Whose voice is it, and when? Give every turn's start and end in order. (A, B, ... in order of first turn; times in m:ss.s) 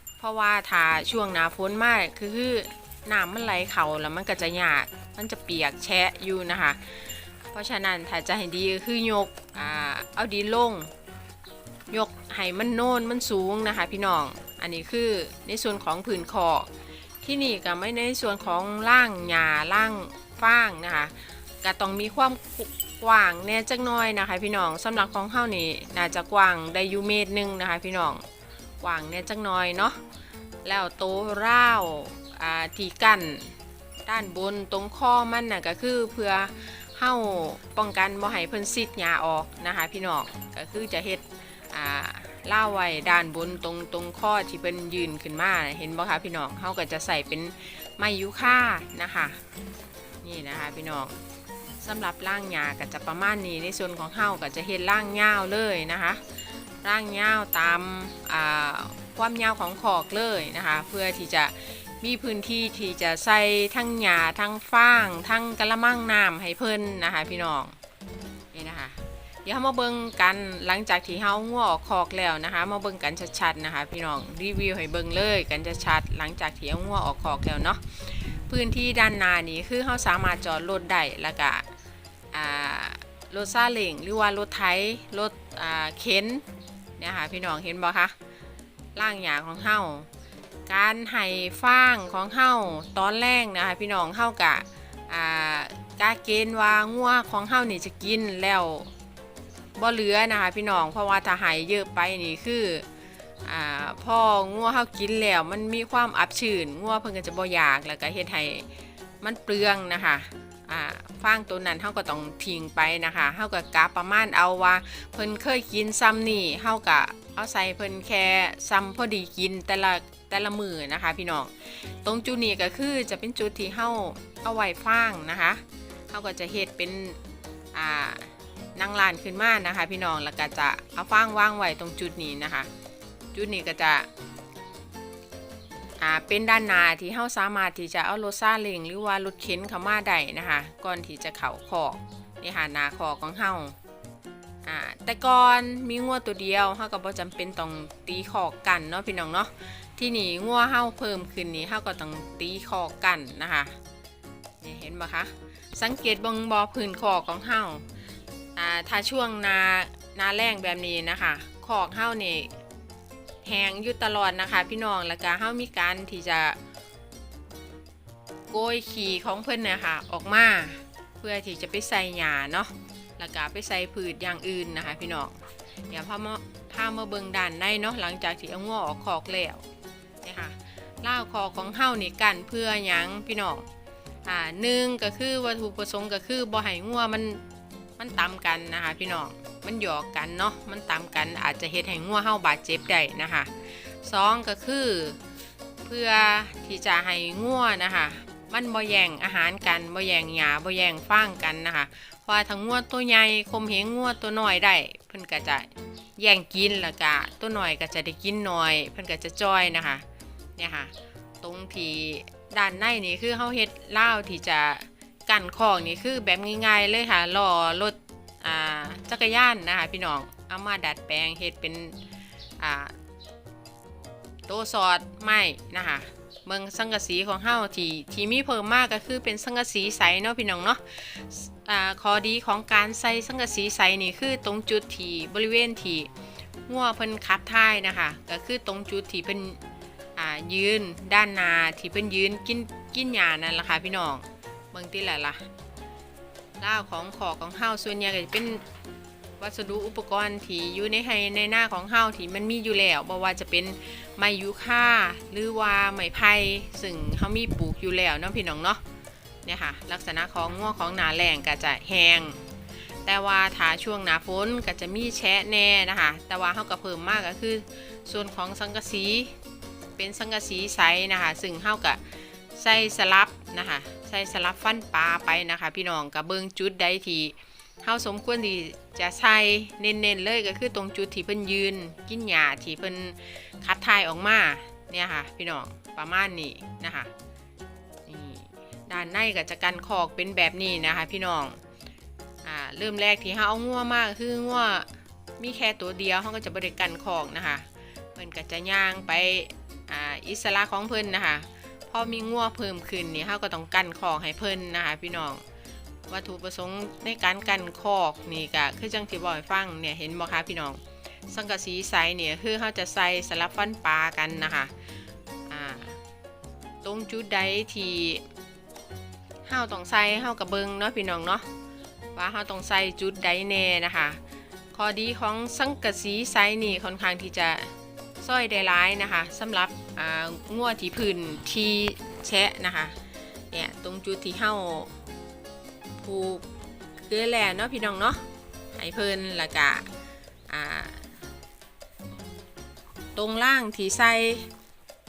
0:00.2-0:10.9 A
0:11.9-0:16.7 A
0:17.2-0:28.2 A
0:28.8-0:30.0 A
0:30.6-0:49.4 A
0:50.2-0:51.2 A
0:51.8-0:56.2 A
0:56.8-1:07.8 A
1:08.5-1:21.7 A
1:22.3-1:26.4 A
1:27.0-1:28.2 A
1:29.0-1:30.1 A
1:30.7-1:38.9 A
1:39.8-1:42.9 A
1:43.4-1:48.7 A
1:49.2-2:07.2 A
2:07.7-2:12.7 A
2:13.3-2:14.1 A
2:16.0-2:23.8 A
2:24.6-2:33.8 A
2:34.6-2:37.9 A
2:38.6-2:42.5 A
2:43.4-2:46.6 A
2:48.5-2:55.4 A
2:55.9-2:59.7 A
3:00.2-3:03.7 A
3:04.2-3:07.4 A
3:08.0-3:15.2 A
3:15.8-3:30.0 A
3:30.6-3:42.0 A
3:42.6-3:42.9 A
3:44.5-3:56.1 A
3:56.7-3:59.6 A
4:00.2-4:05.5 A
4:06.6-4:08.6 A
4:09.4-4:18.8 A
4:19.5-4:22.5 A
4:23.0-4:29.3 A
4:30.0-4:32.0 A
4:32.6-4:47.1 A
4:48.1-4:51.6 A
4:52.4-5:05.4 A
5:06.1-5:14.7 A
5:15.5-5:16.0 A
5:16.8-5:18.3 A
5:19.5-5:21.5 A
5:22.2-5:24.2 A
5:24.7-5:33.0 A
5:33.5-5:35.0 A
5:36.0-5:36.5 A
5:37.0-5:39.9 A
5:40.5-5:41.1 A
5:43.2-5:44.5 A